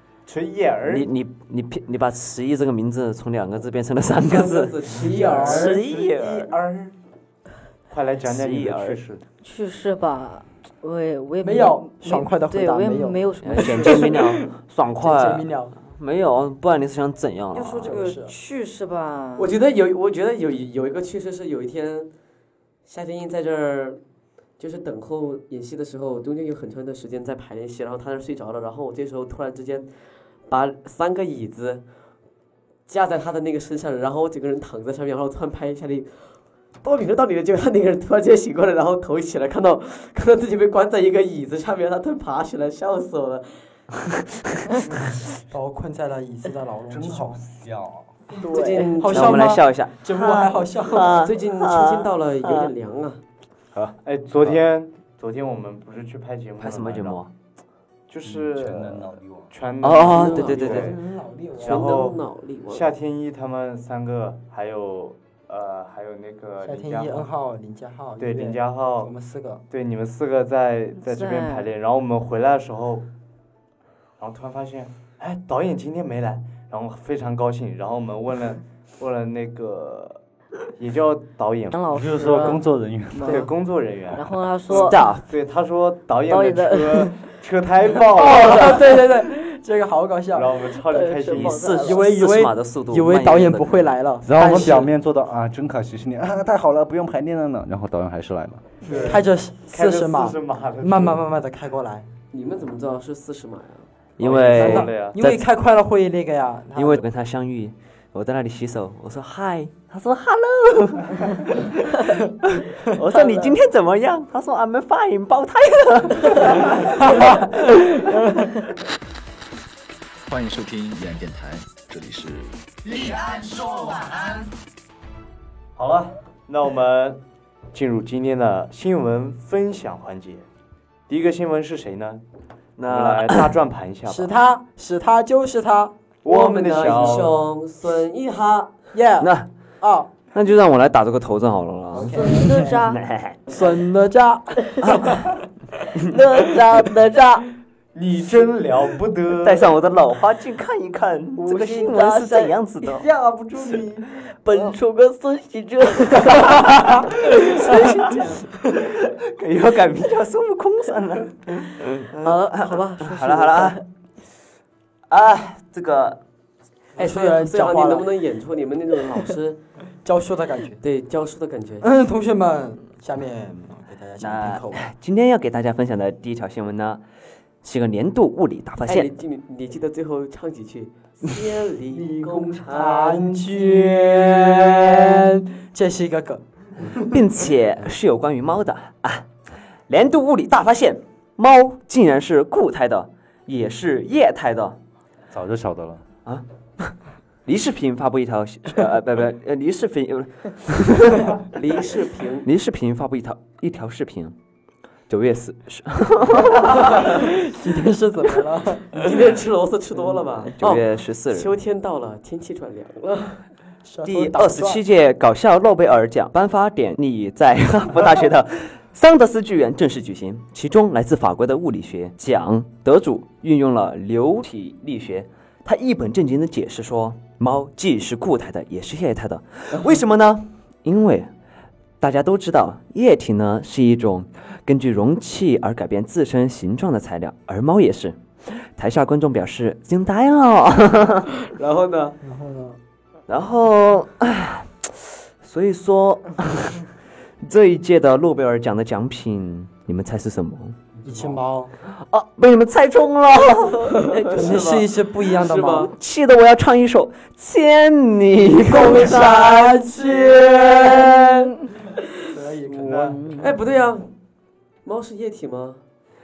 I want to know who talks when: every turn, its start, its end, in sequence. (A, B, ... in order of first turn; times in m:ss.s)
0:00.3-0:01.1 A
0:00.9-0:06.5 B
0:04.2-0:05.7 C
0:04.9-0:05.8 D
0:05.3-0:06.9 A
0:07.9-0:09.2 A
0:08.2-0:09.0 B
0:09.4-0:14.1 E
0:11.4-0:15.8 D
0:13.4-0:18.1 B
0:17.5-0:19.5 E
0:17.8-0:18.3 D
0:19.4-0:22.1 C
0:22.8-0:24.0 C
0:24.6-0:29.9 C
0:30.5-0:31.8 C
0:32.9-0:43.7 C
0:45.5-0:47.4 D
0:46.9-0:48.1 F
0:48.4-0:51.2 D
0:48.4-0:48.9 E
0:48.5-0:49.6 C
0:49.0-0:52.7 B
0:51.2-0:53.2 C
0:54.0-0:57.2 A
0:56.6-0:57.3 B
0:58.1-1:00.9 A
0:58.3-0:59.5 F
0:59.8-1:00.9 B
1:00.1-1:02.1 D
1:00.1-1:00.9 C
1:01.6-1:02.9 C
1:01.6-1:07.3 A
1:06.6-1:09.6 D
1:08.2-1:09.1 A
1:09.7-1:13.1 A
1:11.0-1:11.7 E
1:14.2-1:20.2 A
1:20.8-1:21.9 A
1:21.7-1:23.5 E
1:21.9-1:23.3 F
1:23.2-1:29.0 A
1:24.1-1:25.0 E
1:24.7-1:25.2 B
1:26.3-1:27.2 E
1:28.1-1:30.7 D
1:30.3-1:31.8 A
1:30.9-1:32.1 E
1:31.3-1:33.9 B
1:31.8-1:34.9 D
1:34.2-1:38.6 F
1:38.9-1:41.3 A
1:39.0-1:42.1 D
1:42.3-1:43.9 C
1:44.2-1:45.4 B
1:44.2-1:45.2 A
1:44.5-1:47.0 D
1:46.8-1:58.0 B
2:00.3-2:04.4 G
2:05.8-2:07.2 A
2:07.7-2:10.5 A
2:11.1-2:12.2 A
2:12.8-2:13.6 B
2:12.8-2:14.3 A
2:14.1-2:15.9 D
2:16.2-2:17.5 A
2:16.3-2:18.9 C
2:16.8-2:17.1 D
2:18.9-2:20.1 D
2:19.2-2:19.5 B
2:20.3-2:23.4 B
2:21.9-2:22.8 D
2:22.1-2:23.0 E
2:23.5-2:25.1 D
2:24.8-2:25.3 B
2:25.9-2:27.5 E
2:27.9-2:29.7 A
2:29.4-2:33.1 B
2:31.4-2:32.9 E
2:33.0-2:34.1 A
2:34.4-2:38.2 E
2:37.3-2:43.8 B
2:42.2-2:43.8 E
2:45.1-2:46.2 B
2:47.0-2:48.1 D
2:47.0-2:49.6 C
2:50.0-2:50.8 D
2:50.8-2:51.8 C
2:51.8-2:54.8 D
2:54.2-2:57.0 B
2:57.6-2:59.1 B
2:58.9-3:04.0 C
3:01.9-3:07.2 D
3:07.1-3:09.3 B
3:09.9-3:14.8 B
3:15.3-3:16.0 F
3:16.3-3:17.0 B
3:17.5-3:21.4 B
3:21.6-3:22.5 C
3:22.4-3:24.4 B
3:25.1-3:27.1 B
3:26.5-3:29.0 D
3:28.9-3:33.4 C
3:30.6-3:31.5 B
3:33.8-3:34.8 D
3:34.0-3:51.3 B
3:52.0-4:01.3 B
4:01.5-4:02.2 C
4:02.2-4:02.8 D
4:03.3-4:06.9 B
4:07.4-4:10.8 B
4:11.0-4:11.7 D
4:11.9-4:14.6 B
4:13.9-4:15.9 C
4:14.3-4:15.9 D
4:15.9-4:21.0 B
4:18.7-4:21.5 D
4:18.9-4:19.8 C
4:22.3-4:23.2 D
4:22.8-4:23.2 A
4:23.0-4:23.5 E
4:23.4-4:24.1 C
4:24.8-4:25.8 C